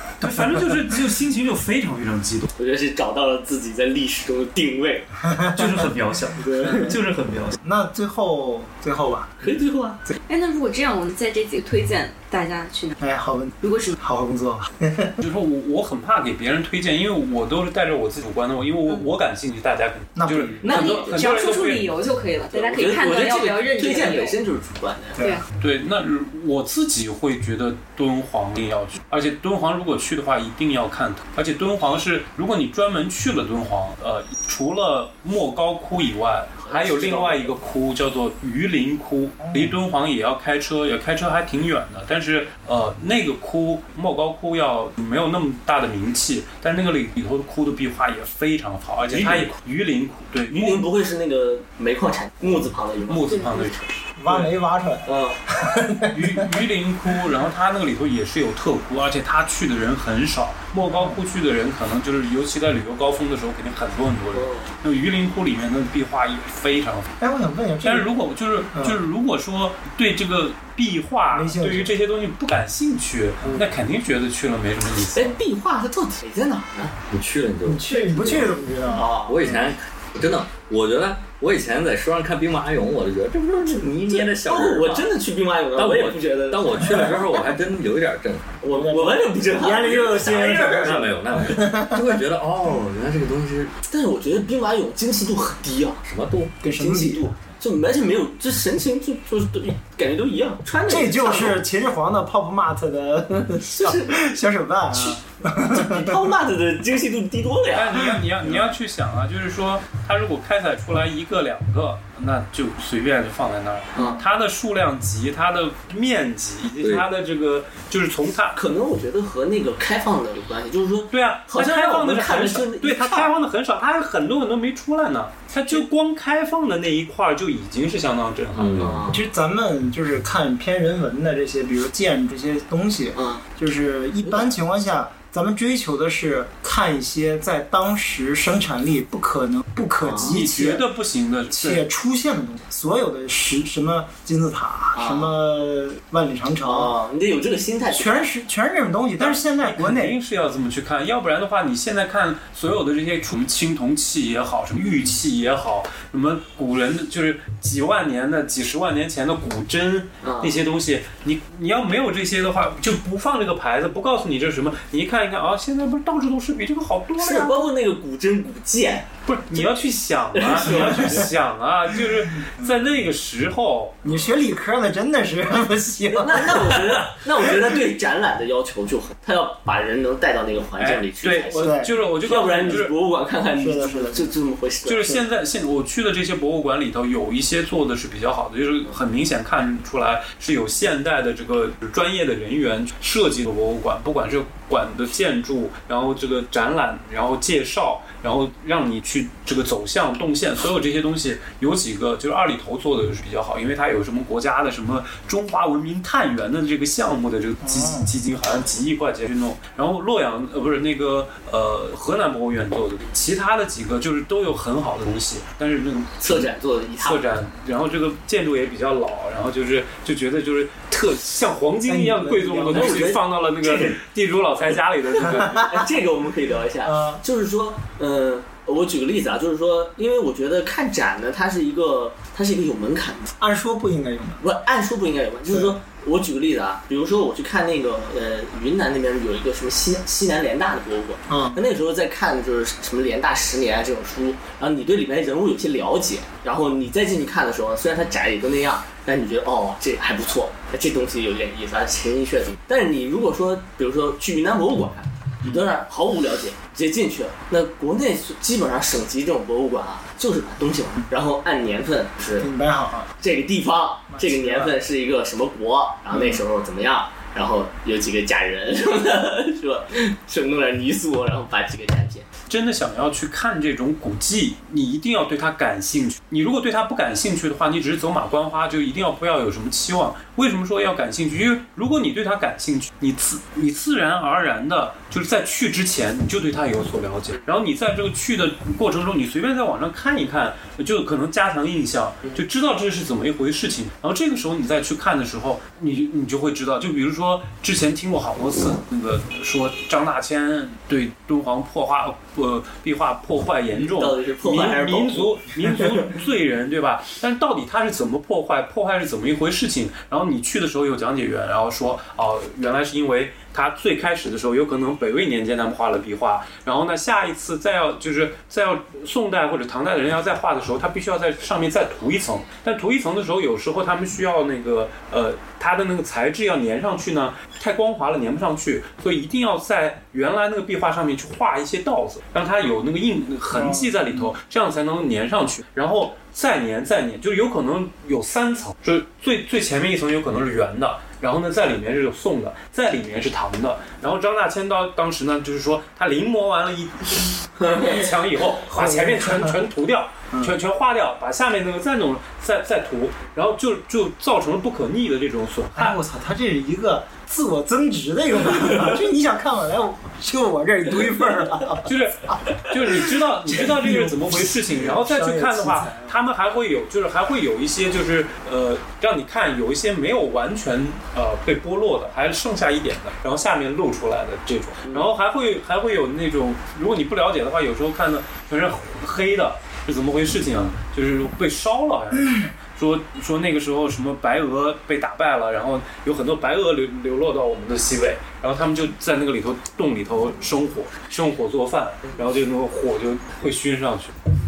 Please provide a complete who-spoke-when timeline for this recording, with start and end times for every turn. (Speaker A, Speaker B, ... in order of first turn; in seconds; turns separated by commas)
Speaker A: 0.2-1.0, Speaker B: 0.2-2.5, Speaker C: 2.6-5.1, Speaker A: 5.3-7.0, Speaker B: 5.5-7.6, Speaker A: 7.6-9.5, Speaker C: 9.4-10.0, Speaker D: 10.3-13.0, Speaker A: 13.0-15.2, Speaker D: 13.6-14.0, Speaker B: 15.2-21.9, Speaker A: 20.2-20.8, Speaker C: 20.6-21.4, Speaker D: 20.6-24.4, Speaker C: 22.5-25.2, Speaker D: 25.2-25.4, Speaker A: 25.2-25.4, Speaker B: 25.6-50.9, Speaker C: 36.6-37.6, Speaker A: 39.4-39.8, Speaker C: 49.0-49.5, Speaker C: 50.5-53.7, Speaker B: 53.1-54.5, Speaker A: 54.2-56.5, Speaker C: 55.1-55.4, Speaker B: 56.1-67.1, Speaker A: 60.8-61.2, Speaker C: 64.3-64.7, Speaker A: 67.2-68.1, Speaker B: 67.8-75.4, Speaker A: 68.7-69.0, Speaker A: 71.3-72.0, Speaker C: 75.1-77.0, Speaker E: 77.1-78.6, Speaker A: 77.7-79.1, Speaker C: 78.9-79.6, Speaker E: 79.3-85.1, Speaker C: 84.1-87.1, Speaker E: 85.8-88.6, Speaker A: 86.8-87.1, Speaker C: 88.6-91.1, Speaker A: 88.7-92.2, Speaker E: 90.7-93.7, Speaker C: 93.8-96.0, Speaker E: 96.0-96.5, Speaker A: 96.6-97.3, Speaker C: 96.8-101.6, Speaker A: 100.9-106.2, Speaker C: 103.6-104.3, Speaker C: 104.9-108.2, Speaker B: 107.7-118.6, Speaker C: 114.0-114.2, Speaker E: 116.8-117.1, Speaker C: 118.6-123.3, Speaker B: 121.1-128.8, Speaker E: 128.5-129.2, Speaker C: 128.8-129.2, Speaker A: 129.1-140.8, Speaker C: 133.2-133.4, Speaker C: 134.2-134.5, Speaker C: 140.0-140.4, Speaker B: 140.2-141.9, Speaker A: 141.5-146.9, Speaker C: 144.9-145.4, Speaker C: 146.6-148.4, Speaker A: 147.9-150.2, Speaker B: 149.2-167.7, Speaker C: 160.2-160.6, Speaker C: 167.2-169.7, Speaker B: 169.3-174.0, Speaker C: 170.3-171.3, Speaker A: 174.0-177.2, Speaker C: 176.1-185.2, Speaker B: 180.8-182.9, Speaker A: 181.6-181.9, Speaker A: 183.6-184.3, Speaker B: 184.9-216.5, Speaker A: 207.6-208.1, Speaker C: 216.2-217.3, Speaker B: 217.0-225.6, Speaker A: 221.9-223.1, Speaker C: 222.7-224.0, Speaker C: 225.2-233.3, Speaker A: 226.8-227.2, Speaker A: 233.4-234.4, Speaker C: 234.4-262.5, Speaker A: 235.5-235.8, Speaker A: 241.3-241.6, Speaker A: 262.4-263.1, Speaker C: 263.2-272.3, Speaker A: 264.1-264.8, Speaker A: 266.1-266.4, Speaker B: 272.5-356.0, Speaker C: 303.7-305.5, Speaker A: 333.5-334.0, Speaker C: 347.6-348.0, Speaker A: 348.7-349.6, Speaker A: 355.7-362.4, Speaker B: 361.9-394.1, Speaker A: 362.9-366.2